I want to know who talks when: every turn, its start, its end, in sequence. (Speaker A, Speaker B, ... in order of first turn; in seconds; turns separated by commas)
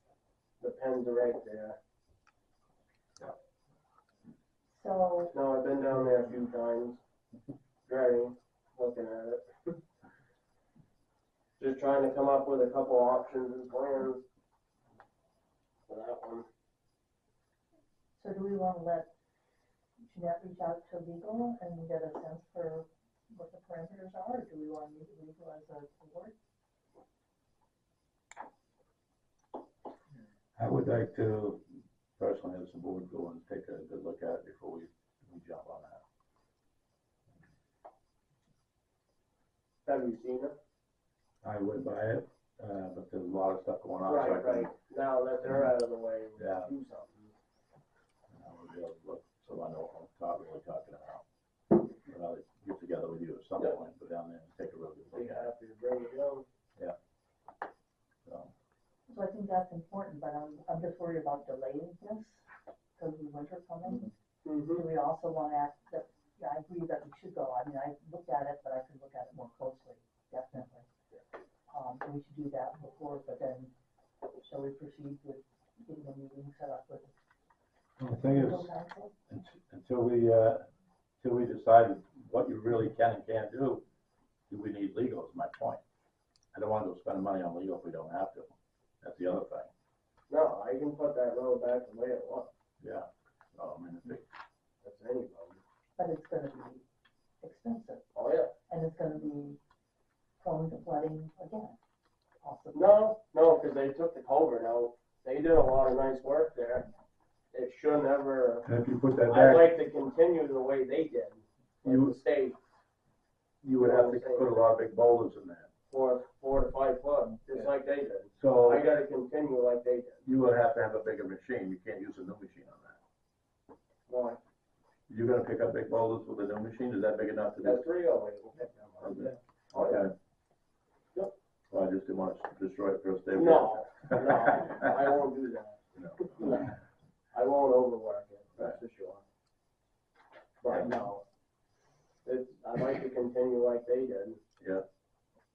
Speaker A: 0.6-1.8, Speaker B: 4.7-5.3, Speaker A: 5.3-7.0, Speaker A: 7.9-9.8, Speaker A: 11.6-14.2, Speaker A: 15.9-16.4, Speaker B: 18.2-19.1, Speaker B: 20.0-26.3, Speaker C: 30.6-31.6, Speaker C: 32.2-36.0, Speaker A: 39.9-40.5, Speaker C: 41.4-44.7, Speaker A: 44.0-47.3, Speaker C: 46.4-46.7, Speaker C: 48.3-51.2, Speaker C: 51.8-55.5, Speaker A: 55.1-56.4, Speaker C: 58.2-58.5, Speaker B: 59.1-62.4, Speaker B: 63.0-64.1, Speaker A: 64.4-64.8, Speaker B: 64.7-70.9, Speaker B: 71.7-73.7, Speaker B: 74.4-77.1, Speaker C: 78.0-78.7, Speaker B: 78.1-79.1, Speaker C: 79.3-80.7, Speaker C: 81.2-83.8, Speaker C: 84.5-85.8, Speaker C: 86.5-89.7, Speaker A: 90.3-92.5, Speaker C: 92.8-94.2, Speaker A: 94.8-95.6, Speaker B: 96.0-96.8, Speaker B: 97.4-98.0, Speaker A: 98.1-98.5, Speaker B: 98.7-99.6, Speaker B: 100.4-101.8, Speaker B: 102.4-103.0, Speaker A: 102.7-106.9, Speaker A: 107.5-108.7, Speaker C: 108.6-109.7, Speaker A: 109.3-112.6, Speaker C: 111.8-112.2, Speaker C: 113.6-115.7, Speaker A: 113.8-114.5, Speaker A: 115.9-120.2, Speaker C: 118.4-118.8, Speaker C: 120.2-123.0, Speaker A: 124.1-124.4, Speaker C: 125.1-127.9, Speaker A: 127.6-130.0, Speaker C: 129.0-130.1, Speaker C: 131.7-134.9, Speaker A: 133.3-136.7, Speaker C: 135.9-136.7, Speaker A: 137.3-139.2, Speaker A: 140.6-141.1, Speaker C: 140.7-141.2, Speaker A: 142.2-144.4